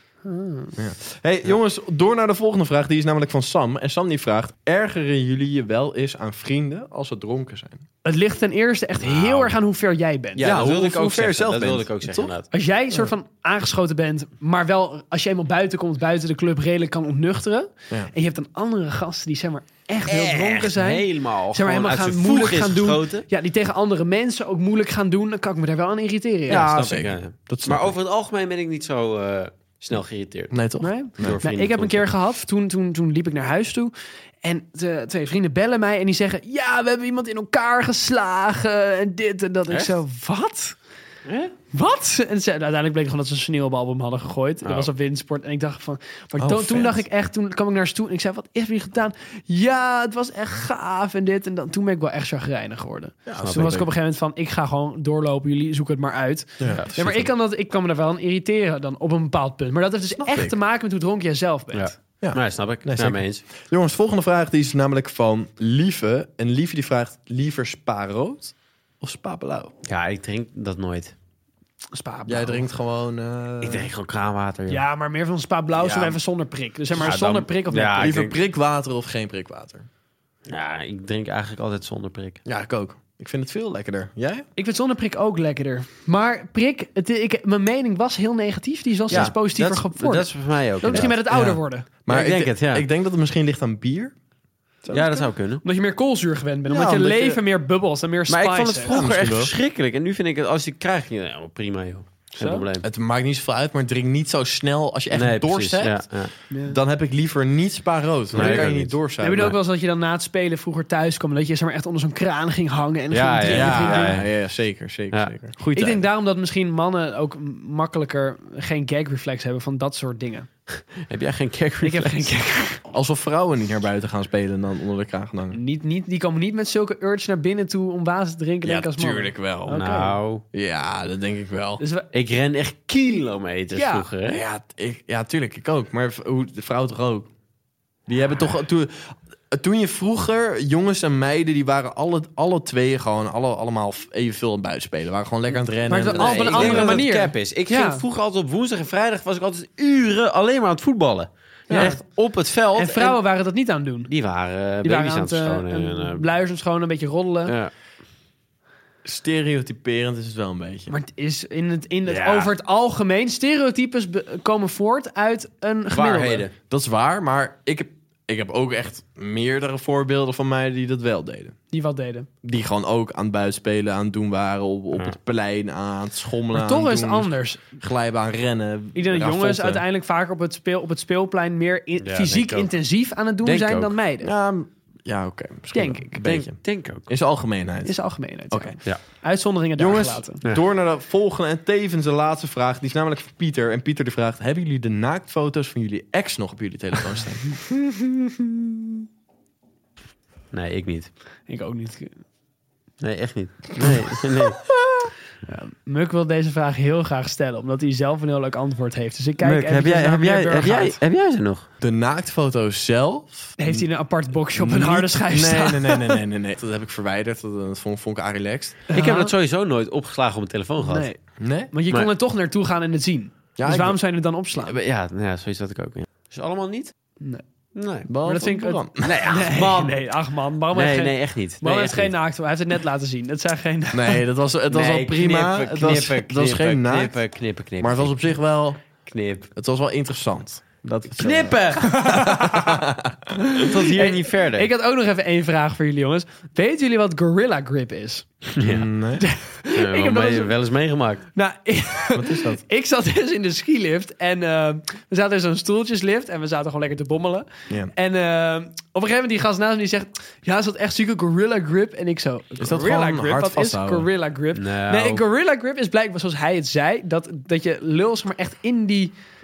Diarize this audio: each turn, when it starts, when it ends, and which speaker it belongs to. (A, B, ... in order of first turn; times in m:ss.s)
0:00.2-0:00.8 A
0:00.8-0:07.8 B
0:08.0-0:10.5 A
0:09.0-0:09.6 C
0:10.4-0:12.5 C
0:10.4-0:12.3 B
0:12.5-0:26.7 A
0:20.1-0:23.2 C
0:26.5-0:27.9 B
0:26.5-0:30.6 C
0:30.5-0:31.4 B
0:30.8-0:40.8 A
0:31.2-0:32.1 C
0:39.7-0:39.9 C
0:41.2-0:41.5 C
0:41.7-1:01.9 A
0:44.6-0:44.9 C
0:46.4-0:47.0 B
0:53.2-0:53.9 B
0:53.4-0:53.8 C
0:56.6-0:57.2 B
0:56.7-0:57.2 C
1:00.2-1:00.5 B
1:01.7-1:03.4 C
1:02.2-1:09.7 B
1:09.8-1:11.1 C
1:11.9-1:12.6 A
1:12.3-1:13.9 B
1:13.6-1:14.8 C
1:14.7-1:18.1 A
1:15.7-1:16.2 B
1:16.9-1:18.4 C
1:18.0-1:19.9 B
1:20.5-1:22.4 C
1:22.4-1:24.4 B
1:24.6-1:30.3 A
1:29.1-1:31.2 C
1:30.8-1:31.9 A
1:30.9-1:34.1 B
1:32.1-1:32.9 C
1:34.8-1:35.2 B
1:34.9-1:35.6 C
1:35.6-1:38.9 A
1:36.7-1:37.4 B
1:38.3-1:42.9 C
1:38.9-1:39.5 B
1:42.4-1:42.6 A
1:42.8-1:46.0 B
1:45.1-1:46.3 C
1:46.5-1:46.8 A
1:46.6-1:49.6 B
1:48.3-1:49.5 C
1:48.4-1:48.6 A
1:49.2-1:54.2 A
1:53.1-1:54.3 C
1:53.4-1:56.0 B
1:55.7-2:00.5 A
2:01.0-2:02.4 C
2:01.8-2:02.8 A
2:02.9-2:05.6 B
2:05.5-2:10.2 A
2:08.6-2:09.8 B
2:09.7-2:10.4 C
2:10.5-2:11.8 B
2:11.8-2:12.0 A
2:12.1-2:14.4 C
2:13.7-2:14.1 A
2:14.2-2:17.3 B
2:18.1-2:27.0 B
2:25.9-2:28.0 A
2:26.1-2:33.2 C
2:31.7-2:31.9 B
2:31.7-2:32.0 A
2:32.7-2:34.1 A
2:34.1-2:36.2 C
2:34.8-2:37.5 A
2:37.4-2:37.7 C
2:39.0-2:40.9 B
2:40.9-2:46.4 A
2:42.0-2:42.5 C
2:45.9-2:46.5 C
2:46.7-2:51.5 B
2:51.7-2:52.3 A
2:52.4-2:59.8 B
2:56.5-2:57.6 A
2:58.9-3:04.3 A
3:02.0-3:02.7 C
3:03.4-3:03.9 C
3:04.2-3:08.0 B
3:05.7-3:06.2 A
3:06.2-3:07.1 C
3:07.8-3:10.4 A
3:08.5-3:08.8 B
3:09.8-3:17.6 B
3:20.5-3:21.1 C
3:21.5-3:22.2 A
3:23.0-3:24.6 C
3:25.4-3:30.9 A
3:29.4-3:31.6 C
3:31.8-3:33.8 B
3:33.6-3:36.2 A
3:34.5-3:38.8 B
3:38.9-3:39.3 A
3:38.9-3:41.1 C
3:40.8-3:41.2 A
3:41.4-3:41.7 B
3:41.7-3:44.8 A
3:43.6-3:44.0 B
3:44.6-3:46.9 C
3:47.7-3:48.1 C
3:48.1-3:49.2 B
3:48.2-3:54.2 A
3:49.0-3:50.0 C
3:50.7-3:52.2 C
3:53.9-3:57.2 B
3:54.7-3:58.3 C
3:57.8-3:58.8 B
3:59.0-3:59.5 C
3:59.5-4:03.6 B
4:01.2-4:02.0 C
4:01.8-4:02.8 A
4:03.5-4:08.2 A
4:03.6-4:04.7 C
4:08.6-4:08.9 C
4:08.6-4:09.2 B
4:09.2-4:10.5 A
4:09.7-4:11.2 C
4:11.3-4:29.1 A
4:12.1-4:12.6 B
4:22.6-4:24.1 B
4:24.5-4:25.2 C